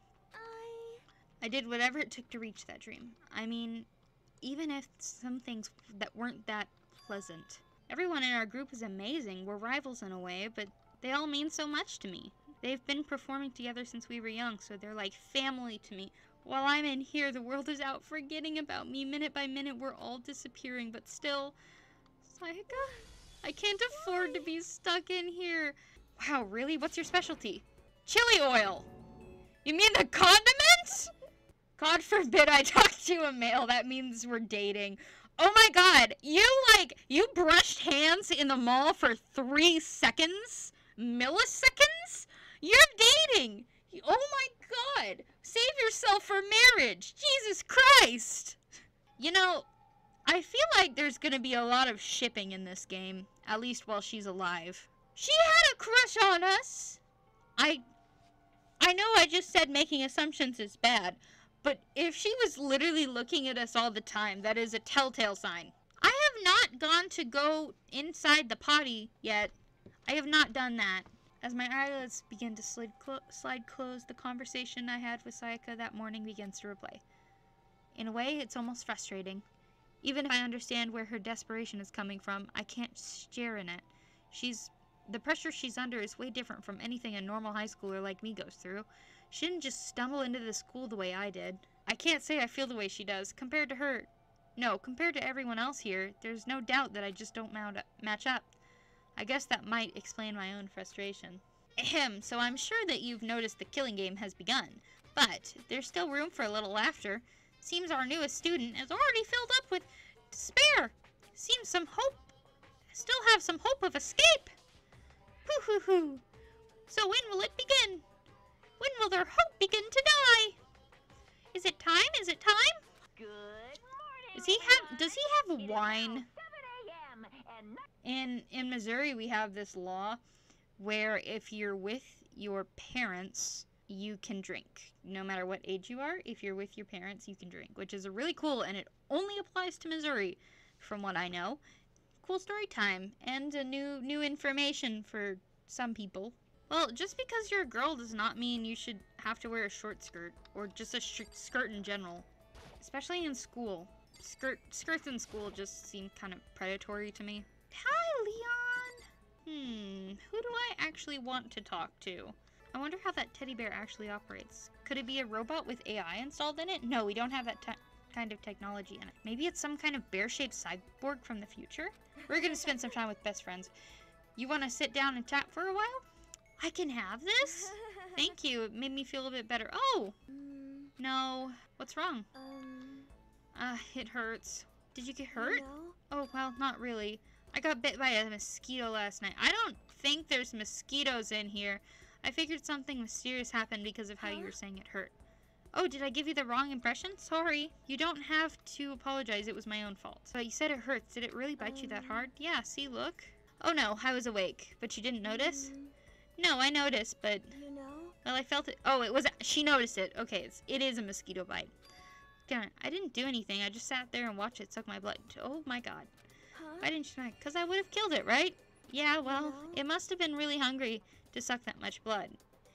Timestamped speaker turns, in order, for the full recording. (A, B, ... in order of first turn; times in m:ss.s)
0:00.3-0:01.0 A
0:01.4-0:03.9 B
0:04.4-0:21.6 B
0:22.2-0:28.9 B
0:29.6-0:31.1 B
0:31.8-0:48.6 B
0:49.2-0:49.7 B
0:50.3-0:57.0 B
0:57.6-0:57.8 B
0:58.8-1:09.6 B
1:10.1-1:17.0 B
1:18.0-1:19.4 B
1:20.0-1:38.5 B
1:39.2-1:52.3 B
1:52.9-1:54.6 B
1:55.5-1:56.2 B
1:56.9-1:58.0 B
1:58.8-2:00.6 B
2:01.5-2:02.8 B
2:03.2-2:04.2 C
2:04.3-2:06.3 B
2:06.3-2:07.8 C
2:08.0-2:10.2 B
2:10.8-2:21.6 B
2:22.2-2:32.3 B
2:32.8-2:53.7 B
2:54.4-2:56.0 B
2:56.6-3:00.2 B
3:00.3-3:00.9 A
3:01.0-3:02.3 B
3:02.4-3:03.1 A
3:03.6-3:15.1 B
3:05.4-3:06.0 A
3:14.2-3:14.5 A
3:15.7-3:25.8 B
3:21.6-3:22.3 A
3:25.3-3:25.9 A
3:26.4-3:27.6 B
3:27.5-3:28.2 A
3:28.2-3:31.7 B
3:32.5-3:36.1 B
3:36.6-3:36.9 A
3:36.8-3:42.4 B
3:39.2-3:39.8 A